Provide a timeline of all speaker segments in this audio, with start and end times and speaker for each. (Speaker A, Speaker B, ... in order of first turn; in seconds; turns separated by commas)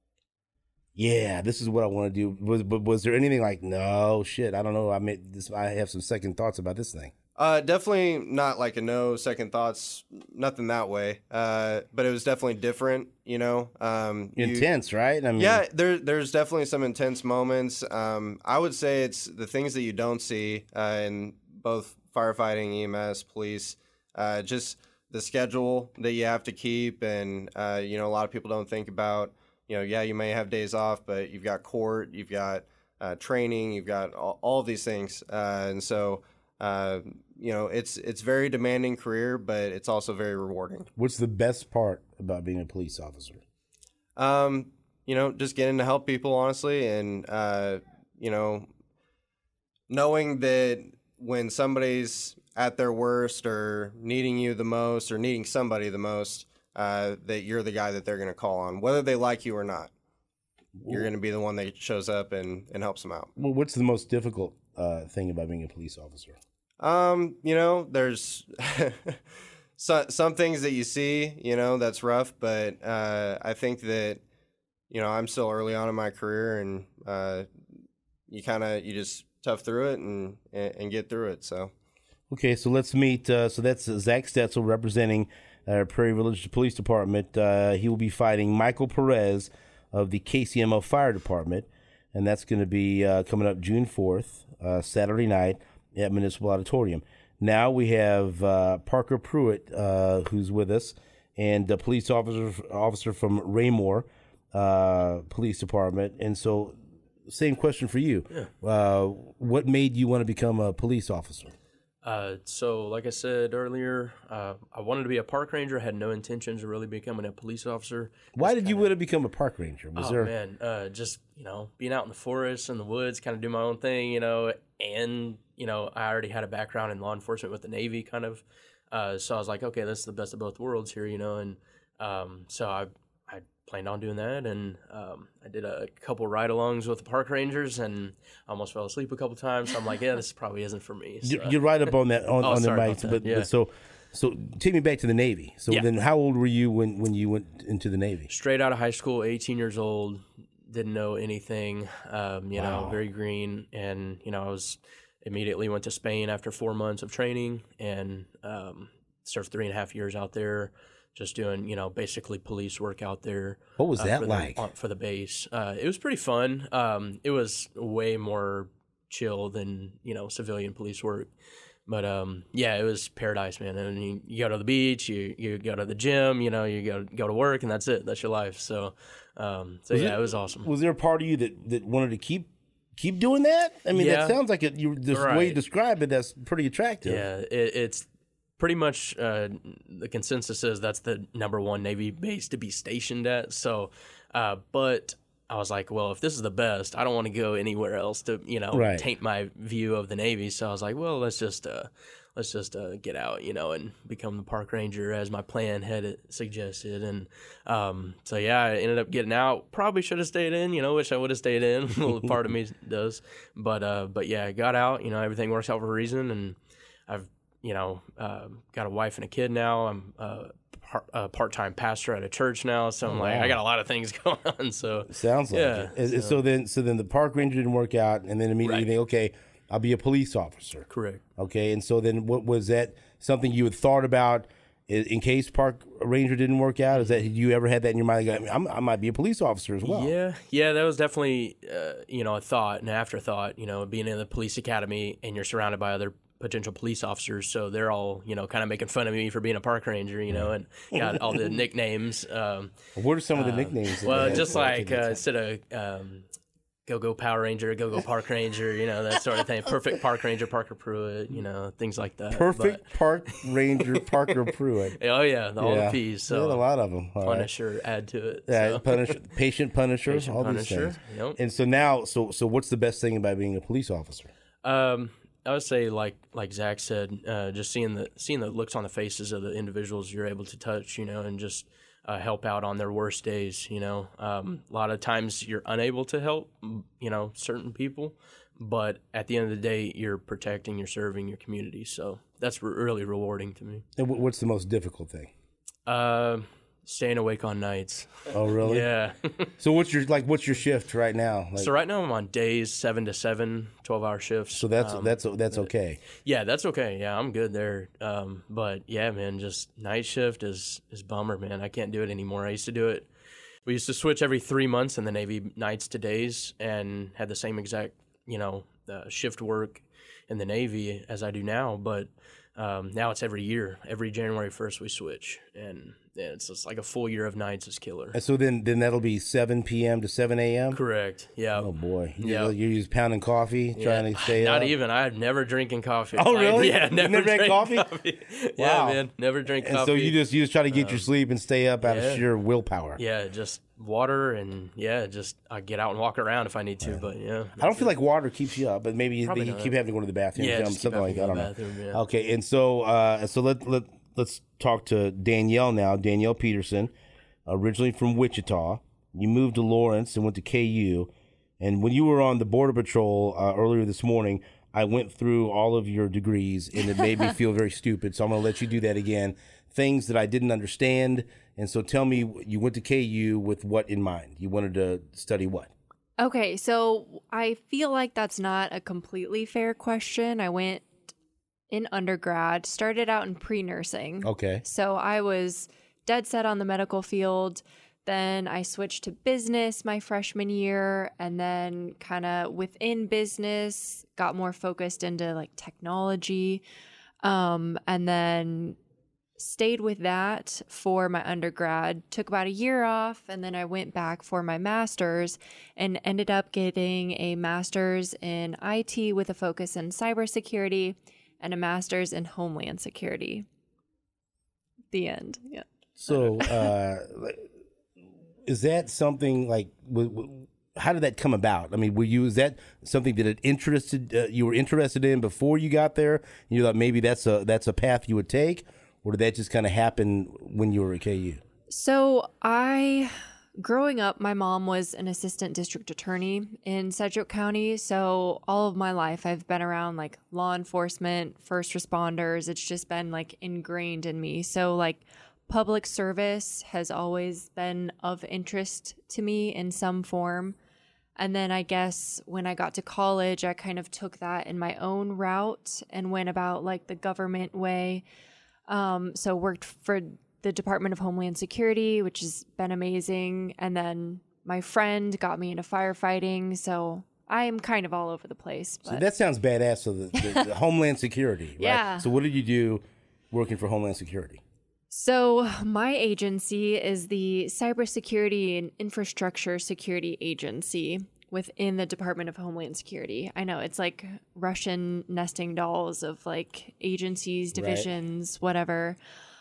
Speaker A: 1.0-7.1, Speaker B: 7.4-14.7, Speaker A: 14.4-15.6, Speaker B: 15.4-40.9, Speaker A: 41.0-43.4, Speaker B: 44.2-48.7, Speaker B: 49.9-59.9, Speaker A: 60.8-61.1, Speaker B: 60.9-63.3, Speaker A: 63.4-66.4, Speaker B: 66.8-69.2, Speaker B: 69.8-74.2, Speaker B: 74.9-77.5, Speaker B: 78.3-81.7, Speaker A: 82.3-106.8, Speaker A: 107.3-111.5, Speaker C: 112.0-118.9, Speaker A: 118.3-120.3, Speaker C: 120.0-141.6, Speaker A: 141.2-148.3, Speaker C: 142.4-143.5, Speaker C: 148.3-171.3, Speaker A: 152.6-153.0, Speaker A: 163.8-164.6, Speaker C: 171.9-180.7, Speaker A: 179.9-187.2, Speaker C: 183.9-184.4, Speaker C: 185.1-185.6, Speaker C: 187.1-226.3, Speaker A: 198.7-199.1, Speaker A: 223.1-223.6, Speaker A: 225.1-240.1, Speaker C: 228.6-228.9, Speaker C: 230.9-231.2, Speaker C: 239.8-252.7, Speaker A: 250.3-251.4, Speaker A: 253.0-255.2, Speaker C: 253.3-256.2, Speaker C: 256.9-263.4, Speaker A: 262.3-265.0, Speaker C: 265.0-266.6, Speaker A: 265.6-267.5, Speaker C: 267.2-269.2, Speaker A: 268.5-274.3, Speaker C: 270.1-271.4, Speaker C: 274.6-293.9, Speaker A: 294.0-295.3, Speaker C: 295.9-299.5, Speaker A: 298.3-298.9, Speaker A: 299.6-301.7, Speaker C: 301.6-313.1, Speaker A: 304.6-306.0, Speaker C: 313.7-328.2, Speaker A: 328.1-330.8, Speaker C: 330.7-331.7, Speaker A: 331.6-334.7, Speaker C: 332.2-332.5, Speaker C: 333.8-341.1, Speaker A: 336.2-337.9, Speaker A: 338.6-339.0, Speaker A: 339.6-343.0, Speaker C: 341.8-342.2, Speaker C: 343.0-347.9, Speaker A: 347.6-356.9, Speaker C: 349.3-349.7, Speaker C: 350.4-352.0, Speaker A: 357.5-361.1, Speaker A: 361.6-375.7, Speaker D: 376.2-380.9, Speaker D: 381.7-396.6, Speaker A: 384.2-384.6, Speaker D: 397.2-398.8, Speaker D: 399.4-413.5, Speaker D: 414.9-416.7, Speaker A: 416.0-417.5, Speaker A: 418.5-431.4, Speaker D: 431.7-450.6, Speaker D: 451.2-458.0, Speaker D: 458.7-469.0, Speaker A: 468.9-474.4, Speaker D: 470.2-470.4, Speaker D: 471.6-472.1, Speaker D: 474.9-489.0, Speaker A: 487.6-487.9